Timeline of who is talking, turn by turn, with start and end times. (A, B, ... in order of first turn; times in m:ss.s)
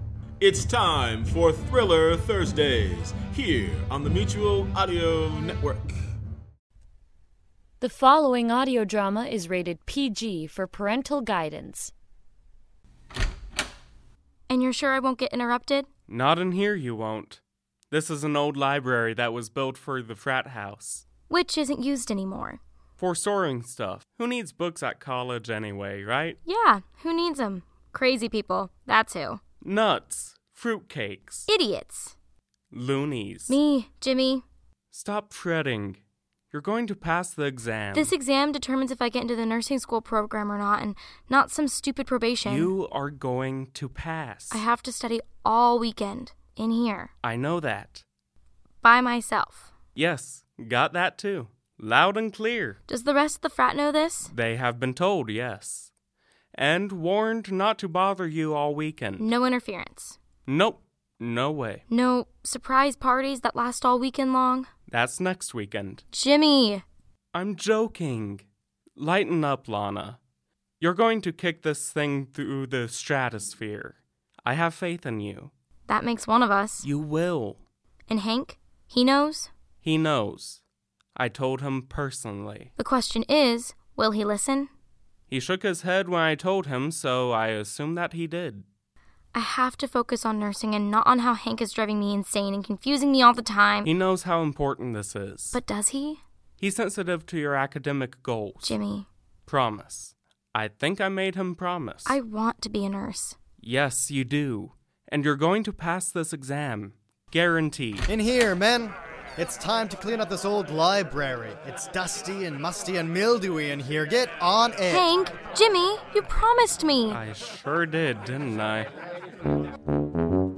0:00.4-0:05.8 A
0:07.8-0:11.9 B
0:14.5-0:15.9 C
0:16.1-0:17.4 D
0:17.9-0:21.0 D
0:21.3-0:22.6 C
0:23.0-0:26.4 D
0:26.4-0:29.4 C
0:29.6-0:31.5 D
0:31.5-0:32.1 C
0:32.7-0:33.6 D
0:33.5-0:34.4 C
0:34.9-0:36.0 D
0:36.5-0:38.1 D
0:37.9-0:42.7 C
0:42.4-0:44.6 D
0:44.5-0:47.1 C
0:47.2-0:48.0 D
0:48.8-0:49.7 C
0:50.0-0:52.8 D
0:52.9-0:54.3 C
0:54.3-0:55.9 D
0:56.5-0:59.3 D
0:59.2-1:00.2 C
1:00.5-1:01.8 D
1:01.9-1:04.7 C
1:04.9-1:06.0 D
1:06.1-1:06.8 C
1:07.3-1:08.4 D
1:09.0-1:10.2 D
1:10.8-1:15.5 D
1:15.9-1:16.8 C
1:16.8-1:17.6 D
1:18.1-1:19.5 C
1:19.8-1:20.6 D
1:21.2-1:22.7 D
1:22.8-1:24.7 C
1:25.3-1:28.6 D
1:29.3-1:33.9 C
1:33.8-1:35.6 D
1:35.5-1:36.2 C
1:36.6-1:38.8 D
1:38.6-1:39.1 C
1:39.5-1:42.1 D
1:42.0-1:43.4 C
1:43.6-1:48.1 D
1:48.1-1:55.1 E
1:54.9-1:57.2 C
1:57.1-1:58.9 D